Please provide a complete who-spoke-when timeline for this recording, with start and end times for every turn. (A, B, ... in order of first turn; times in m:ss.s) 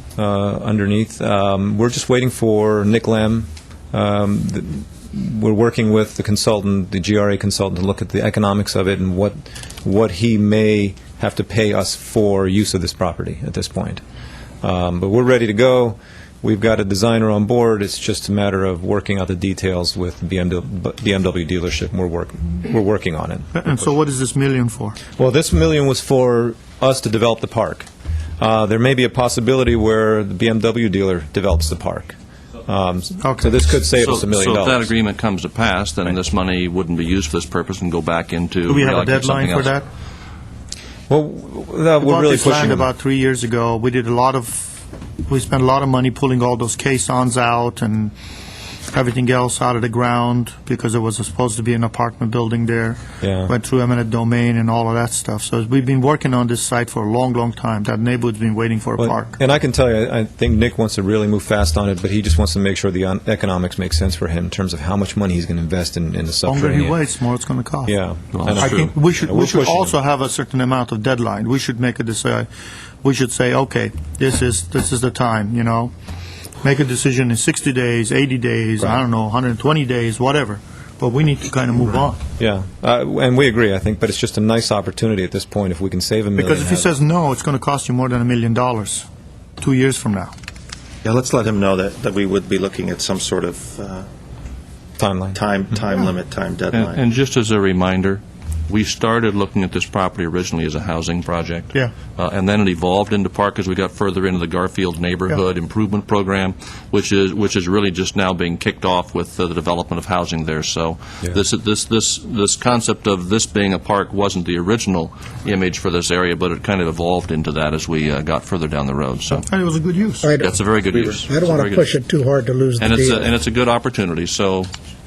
0:00.2-0:14.0 A
0:14.6-0:23.9 A
0:23.5-0:25.0 B
0:25.2-0:27.9 A
0:28.4-0:34.9 A
0:33.2-0:33.6 B
0:34.0-0:39.8 C
0:38.7-0:39.8 B
0:41.1-0:42.9 A
0:42.0-0:48.1 B
0:48.9-0:59.4 B
0:53.2-0:53.5 A
0:59.0-1:07.0 A
1:06.4-1:07.9 B
1:07.8-1:10.0 A
1:08.3-1:08.8 C
1:08.6-1:12.5 B
1:13.0-1:15.9 B
1:16.6-1:22.2 B
1:22.4-1:26.8 A
1:26.4-1:29.1 B
1:29.6-1:30.3 B
1:31.0-1:34.1 D
1:35.0-1:35.4 A
1:35.3-1:37.0 D
1:36.7-1:59.5 C
1:59.5-2:00.3 B
2:00.2-2:00.6 E
2:00.4-2:01.9 C
2:01.2-2:03.4 E
2:02.8-2:04.7 C